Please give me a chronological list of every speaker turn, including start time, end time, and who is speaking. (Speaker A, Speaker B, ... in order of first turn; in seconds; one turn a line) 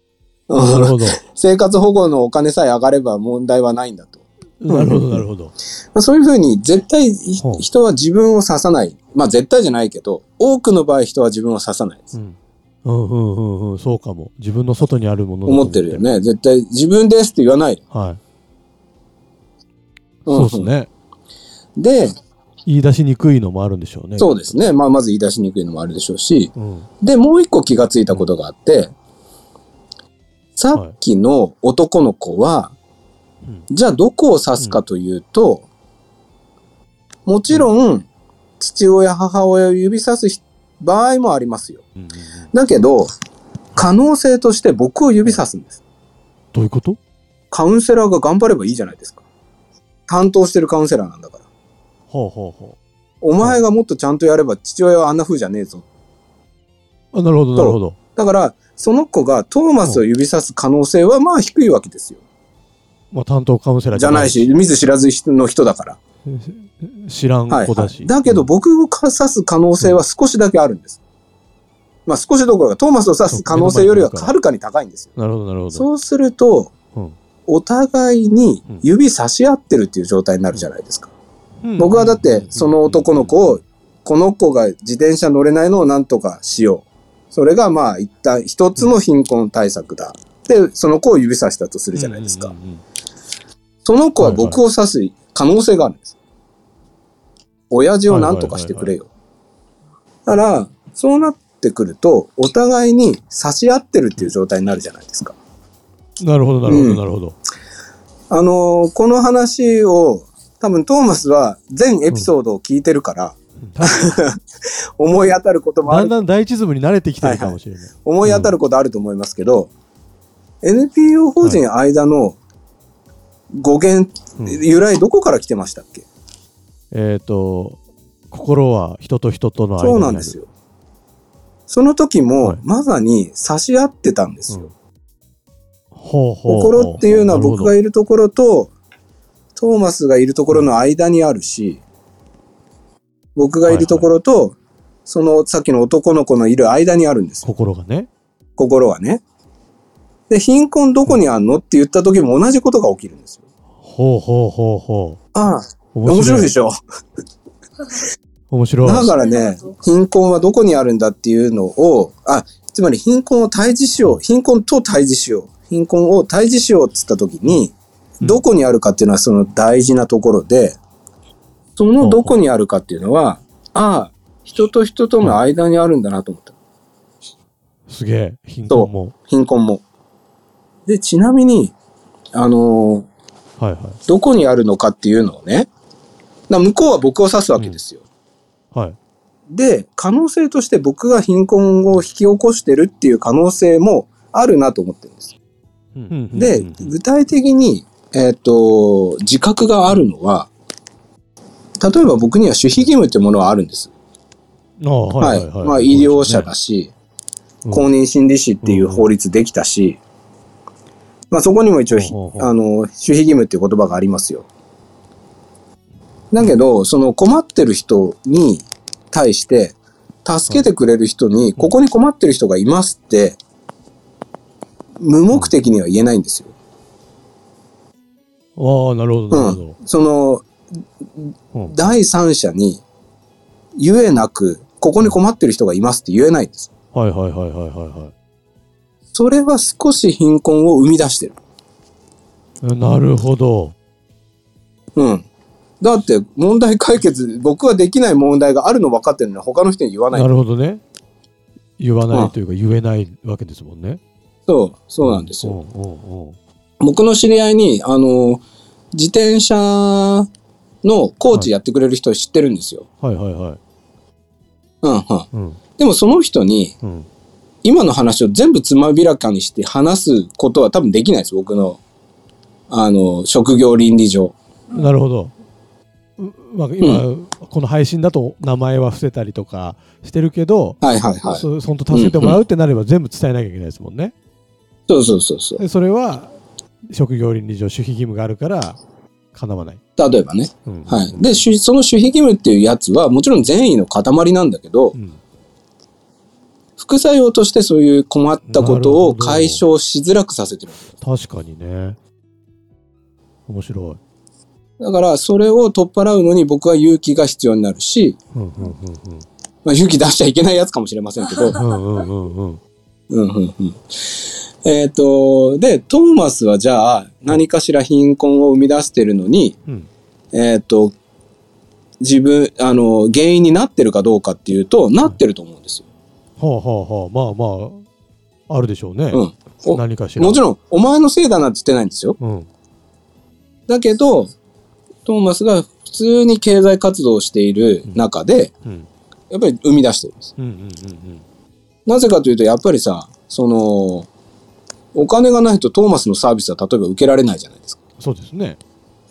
Speaker A: 0.5-5.2
Speaker B: 0.6-1.2
Speaker B: 4.6-5.5
Speaker A: 6.0-12.2
Speaker B: 12.1-16.1
Speaker A: 15.5-17.8
Speaker B: 17.9-18.2
Speaker A: 20.3-20.7
Speaker B: 20.3-20.9
Speaker A: 21.8-22.1
Speaker B: 22.6-24.6
Speaker A: 24.2-28.9
Speaker B: 26.6-26.9
Speaker A: 30.6-32.7
Speaker A: 33.7-35.7
Speaker A: 37.3-38.1
Speaker A: 38.6-41.8
Speaker B: 42.0-42.5
Speaker A: 42.5-43.1
Speaker A: 43.8-45.8
Speaker B: 46.5-47.0
Speaker A: 47.5-49.2
Speaker A: 50.1-51.4
Speaker B: 52.1-52.8
Speaker A: 53.2-55.8
Speaker B: 57.1-58.0
Speaker A: 57.6-62.2
Speaker B: 63.1-64.5
Speaker A: 64.0-66.0
Speaker B: 66.3-68.5
Speaker A: 67.5-71.0
Speaker A: 72.1-75.1
Speaker B: 73.3-74.3
Speaker B: 75.2-75.9
Speaker A: 75.7-76.7
Speaker A: 77.5-81.1
Speaker B: 81.6-83.6
Speaker A: 81.8-92.5
Speaker B: 92.0-92.8
Speaker A: 93.8-96.1
Speaker B: 94.2-94.6
Speaker A: 97.7-99.1
Speaker B: 98.1-98.9
Speaker A: 100.3-105.4
Speaker B: 106.2-107.4
Speaker A: 106.7-107.0
Speaker A: 108.3-114.4
Speaker B: 113.7-114.2
Speaker A: 115.0-116.2
Speaker B: 115.9-118.5
Speaker A: 117.2-119.7
Speaker A: 120.6-122.4
Speaker A: 123.5-126.0
Speaker B: 126.9-127.8
Speaker B: 128.3-130.4
Speaker A: 129.8-130.5
Speaker A: 131.7-134.7
Speaker B: 135.9-137.7
Speaker A: 136.5-138.7
Speaker A: 139.6-141.8
Speaker A: 143.4-147.5
Speaker B: 143.7-144.1
Speaker B: 147.4-148.1
Speaker A: 148.6-149.2
Speaker A: 150.3-153.4
Speaker B: 153.8-155.2
Speaker A: 155.3-156.8
Speaker B: 155.9-156.5
Speaker B: 158.5-159.1
Speaker A: 158.8-170.8
Speaker A: 171.8-176.5
Speaker B: 172.0-172.3
Speaker B: 177.9-179.1
Speaker A: 178.7-179.8
Speaker A: 180.9-181.7
Speaker A: 182.3-183.1
Speaker B: 183.6-184.0
Speaker A: 184.1-185.7
Speaker A: 186.5-188.0
Speaker A: 189.5-195.3
Speaker B: 196.0-196.9
Speaker A: 196.3-200.5
Speaker A: 201.8-203.9
Speaker B: 204.8-206.5
Speaker A: 205.2-206.9
Speaker A: 207.7-210.0
Speaker B: 208.6-209.1
Speaker A: 211.3-214.5
Speaker B: 211.9-212.5
Speaker A: 216.3-223.4
Speaker A: 225.0-226.5
Speaker B: 228.6-229.8
Speaker A: 229.3-230.5
Speaker A: 231.2-232.8
Speaker B: 231.5-231.9
Speaker A: 233.8-236.7
Speaker B: 236.9-238.1
Speaker A: 239.1-241.4
Speaker B: 242.6-243.8
Speaker A: 245.0-245.3
Speaker A: 245.8-250.3
Speaker B: 250.1-250.8
Speaker B: 251.8-254.0
Speaker A: 254.5-255.6
Speaker B: 255.0-256.4
Speaker A: 256.8-258.4
Speaker A: 258.9-260.3
Speaker A: 260.8-262.9
Speaker B: 263.0-263.6
Speaker A: 264.8-265.3
Speaker B: 265.3-265.6
Speaker A: 265.8-266.8
Speaker B: 266.8-267.1
Speaker A: 267.6-271.8
Speaker A: 272.7-274.4
Speaker B: 274.7-275.3
Speaker B: 276.2-284.1
Speaker A: 280.8-282.4
Speaker A: 284.9-285.6
Speaker B: 285.6-286.3
Speaker B: 286.9-288.8
Speaker B: 289.3-289.8
Speaker A: 290.0-295.0
Speaker B: 290.6-291.5
Speaker A: 296.8-300.9
Speaker B: 298.5-299.6
Speaker B: 301.0-302.0
Speaker B: 303.5-304.0
Speaker A: 304.8-308.2
Speaker B: 308.3-309.3
Speaker A: 309.6-311.6
Speaker B: 311.5-312.6
Speaker A: 313.1-319.6
Speaker A: 320.3-320.9
Speaker A: 322.0-325.9
Speaker B: 326.4-327.9
Speaker B: 328.5-330.4
Speaker A: 329.1-332.2
Speaker B: 332.2-332.5
Speaker A: 333.7-334.3
Speaker A: 335.1-338.5
Speaker A: 339.3-340.3
Speaker B: 340.4-341.2
Speaker A: 341.9-344.1
Speaker A: 344.9-347.8
Speaker B: 348.0-348.6